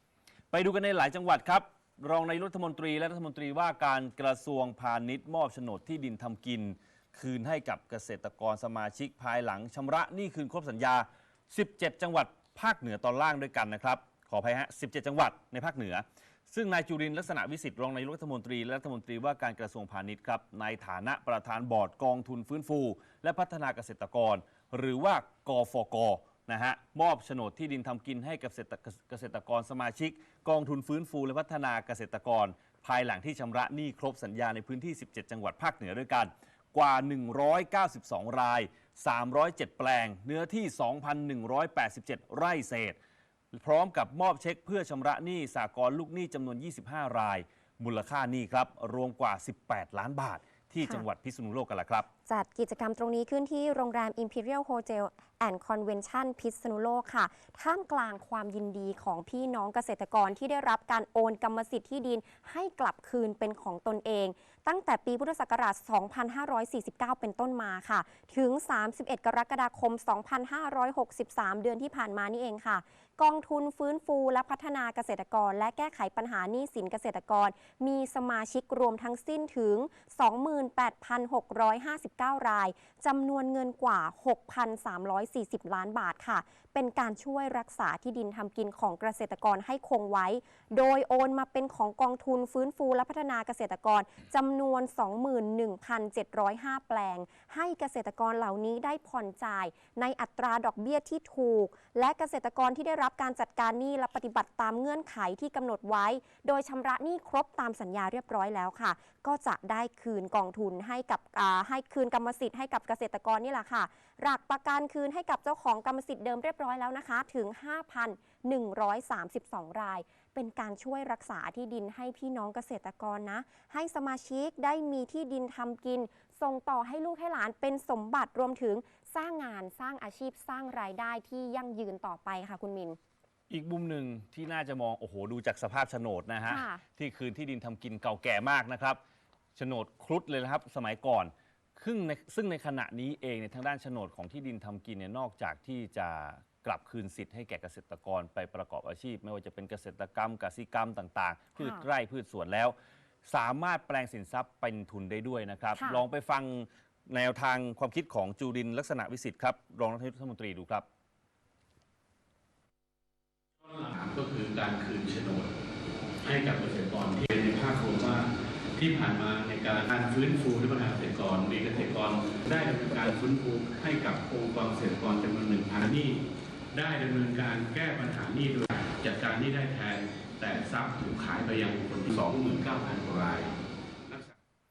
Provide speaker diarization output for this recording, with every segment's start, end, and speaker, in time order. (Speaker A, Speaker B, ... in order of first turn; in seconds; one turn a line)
Speaker A: 0.5-43.0
Speaker A: 43.5-52.1
Speaker B: 50.8-51.1
Speaker B: 52.3-133.0
Speaker A: 133.5-139.0
Speaker B: 136.5-136.8
Speaker A: 139.6-152.7
Speaker B: 151.6-151.8
Speaker A: 153.2-160.8
Speaker B: 155.8-156.0
Speaker C: 163.6-165.5
Speaker C: 166.2-176.2
Speaker C: 176.7-183.5